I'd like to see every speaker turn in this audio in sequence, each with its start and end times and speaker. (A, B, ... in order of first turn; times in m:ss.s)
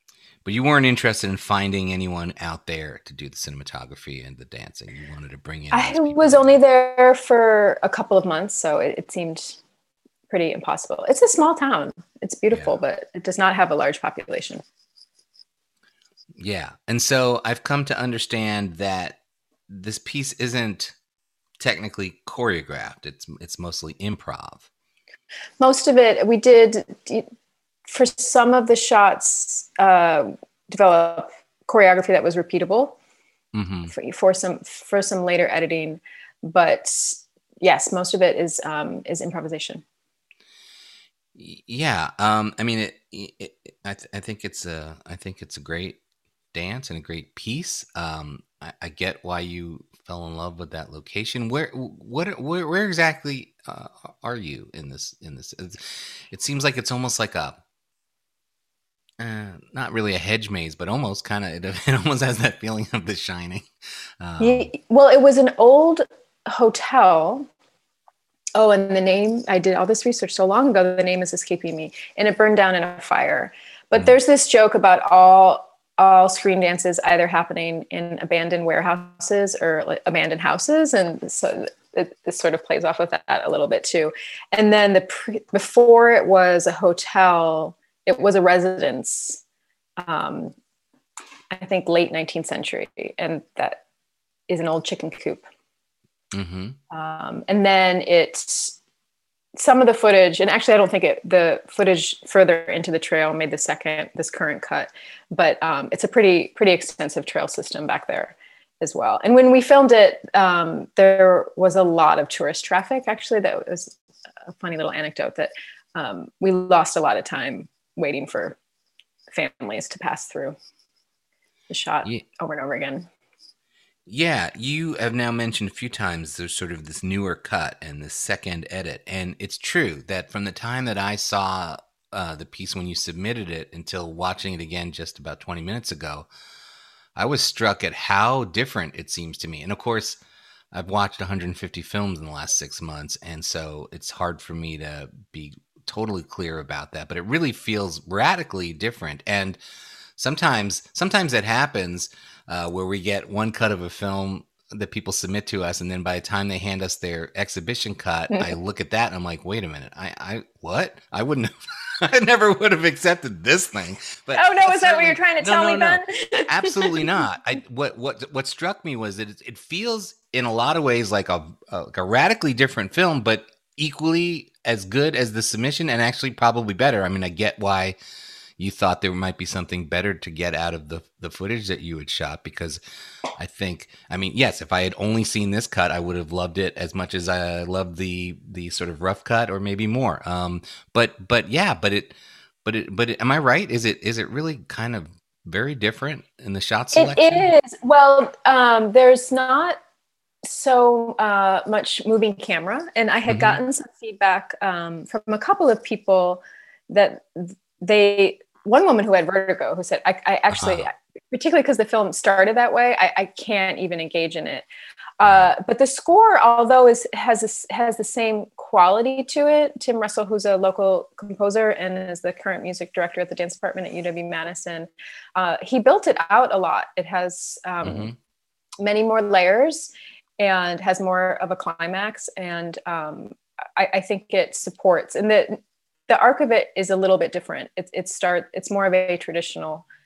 0:00.4-0:06.6 A
0:05.7-0:09.6 B
0:10.3-0:14.6 B
0:16.4-0:21.0 A
0:21.6-0:24.7 A
0:25.6-0:27.3 B
0:27.9-0:33.0 B
0:33.5-0:33.9 A
0:33.9-0:39.8 B
0:41.4-0:46.0 A
0:46.5-0:57.6 A
0:59.2-1:03.7 A
1:04.2-1:04.7 A
1:04.4-1:07.5 B
1:08.6-1:29.4 B
1:30.0-1:30.6 B
1:31.5-1:33.8 B
1:34.5-1:35.4 B
1:36.3-1:36.8 A
1:36.9-1:38.8 B
1:39.6-1:54.0 B
1:54.5-1:58.6 B
1:59.3-2:00.6 B
2:01.7-2:03.1 B
2:04.1-2:16.3 A
2:17.2-2:20.2 A
2:20.7-2:29.6 A
2:30.2-2:58.0 A
2:44.3-2:47.2 B
2:58.6-3:02.8 A
3:03.4-3:17.5 A
3:17.0-3:19.8 B
3:20.4-3:34.7 B
3:23.3-3:23.6 A
3:30.5-3:30.9 A
3:35.2-3:48.1 B
3:47.8-3:48.2 A
3:48.8-3:59.8 B